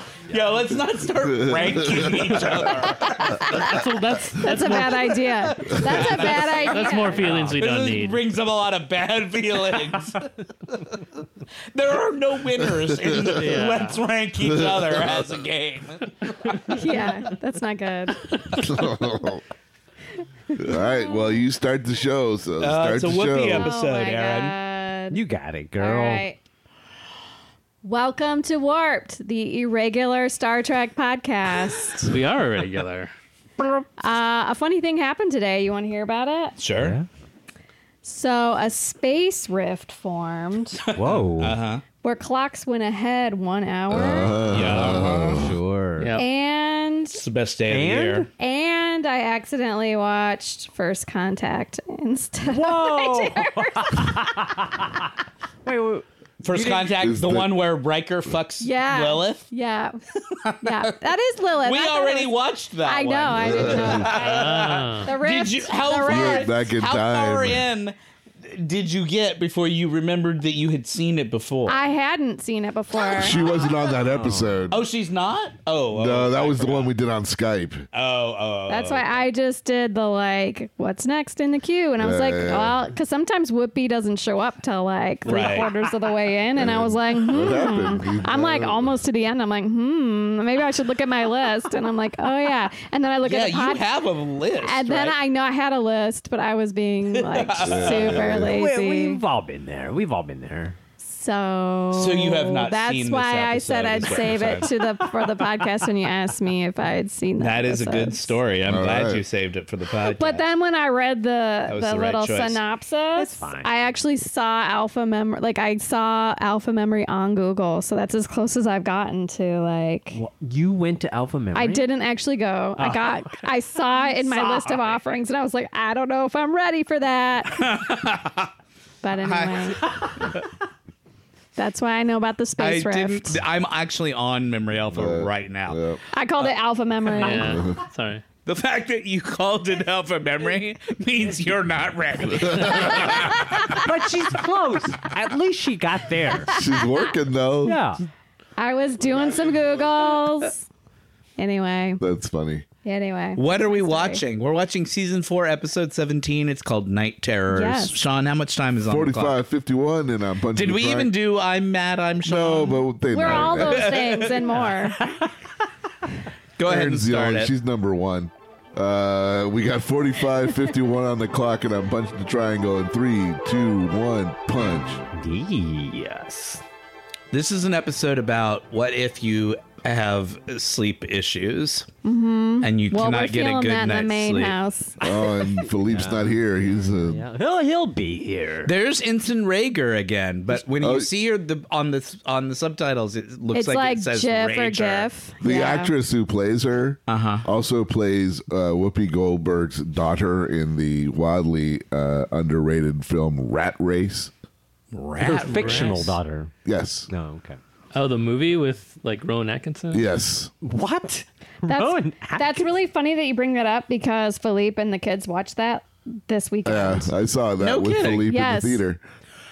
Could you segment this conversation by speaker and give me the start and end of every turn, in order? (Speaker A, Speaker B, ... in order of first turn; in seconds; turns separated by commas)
Speaker A: 0.3-3.7, Speaker B: 1.2-2.6, Speaker C: 3.0-3.7, Speaker D: 3.5-5.2, Speaker C: 4.4-7.3, Speaker A: 5.6-11.0, Speaker D: 6.0-8.2, Speaker A: 11.7-17.0, Speaker B: 12.9-13.3, Speaker D: 13.3-14.0, Speaker B: 14.4-15.2, Speaker C: 16.7-18.2, Speaker A: 18.3-18.7, Speaker B: 18.5-19.4, Speaker C: 20.5-21.4, Speaker B: 20.6-23.7, Speaker A: 22.6-24.5, Speaker C: 23.4-25.2, Speaker E: 25.1-26.2, Speaker C: 25.8-26.4, Speaker C: 27.8-32.1, Speaker D: 32.0-33.1, Speaker C: 34.0-36.5, Speaker A: 36.6-37.0, Speaker E: 36.8-37.1, Speaker C: 38.0-40.8, Speaker A: 40.9-41.8, Speaker E: 40.9-41.5, Speaker C: 42.0-44.5, Speaker B: 43.9-45.6, Speaker E: 44.5-46.1, Speaker A: 44.5-45.4, Speaker D: 46.0-46.2, Speaker C: 46.1-47.2, Speaker A: 47.1-48.3, Speaker E: 47.7-48.3, Speaker C: 48.4-54.3, Speaker E: 52.5-55.1, Speaker E: 55.6-57.0, Speaker A: 56.4-59.4, Speaker B: 57.0-57.6, Speaker C: 58.6-60.0, Speaker A: 60.3-61.0, Speaker C: 60.6-66.7, Speaker A: 61.6-71.8, Speaker B: 63.3-64.1, Speaker D: 64.2-65.1, Speaker B: 66.0-67.7, Speaker C: 71.7-73.4, Speaker B: 73.1-74.8, Speaker E: 74.0-74.6, Speaker A: 74.7-76.9, Speaker B: 76.0-77.9, Speaker A: 77.9-79.1, Speaker C: 78.7-93.9, Speaker B: 82.0-82.8, Speaker A: 85.2-85.7, Speaker B: 86.5-88.9, Speaker A: 93.2-95.2, Speaker C: 94.6-99.2, Speaker A: 97.2-98.3, Speaker B: 97.6-98.5, Speaker E: 98.2-100.8, Speaker C: 101.0-108.3, Speaker A: 101.9-104.7, Speaker A: 107.4-110.4, Speaker B: 108.7-109.2, Speaker C: 110.0-120.2, Speaker A: 111.7-112.6, Speaker E: 113.2-113.7, Speaker E: 120.1-121.9, Speaker C: 121.5-127.6, Speaker E: 122.8-123.5, Speaker E: 124.0-125.0, Speaker A: 127.5-128.5, Speaker C: 129.0-129.8, Speaker A: 129.2-130.0, Speaker C: 131.6-133.4, Speaker A: 132.6-135.8, Speaker B: 134.9-136.0, Speaker C: 136.1-137.6, Speaker D: 137.1-138.2, Speaker B: 137.4-137.8, Speaker A: 138.4-143.8, Speaker B: 142.3-142.9, Speaker C: 143.1-143.6, Speaker E: 143.7-146.5, Speaker B: 146.5-147.8, Speaker C: 146.5-147.1, Speaker E: 147.6-148.0, Speaker C: 148.6-150.7, Speaker C: 151.4-152.0, Speaker B: 152.0-152.7, Speaker C: 152.8-154.2, Speaker A: 153.3-159.4, Speaker C: 157.5-158.0, Speaker B: 158.8-161.1, Speaker A: 160.5-164.5, Speaker B: 162.2-163.9, Speaker C: 163.1-165.0, Speaker E: 165.0-165.3, Speaker A: 166.6-167.5, Speaker B: 166.6-175.0, Speaker E: 175.1-176.6, Speaker A: 177.3-181.9, Speaker C: 182.0-184.9, Speaker A: 182.6-184.6, Speaker B: 185.0-187.2, Speaker E: 185.0-188.7, Speaker A: 188.7-195.1, Speaker B: 190.8-191.1, Speaker C: 193.5-195.9, Speaker B: 195.4-204.3, Speaker A: 197.1-197.4, Speaker A: 204.9-206.2, Speaker E: 205.2-206.5, Speaker D: 205.5-206.0, Speaker B: 206.6-207.1, Speaker E: 207.1-207.6, Speaker D: 207.9-210.1, Speaker B: 209.9-210.5, Speaker E: 210.6-212.7, Speaker C: 211.7-217.1, Speaker B: 216.6-219.0, Speaker A: 217.6-218.3, Speaker C: 218.3-218.8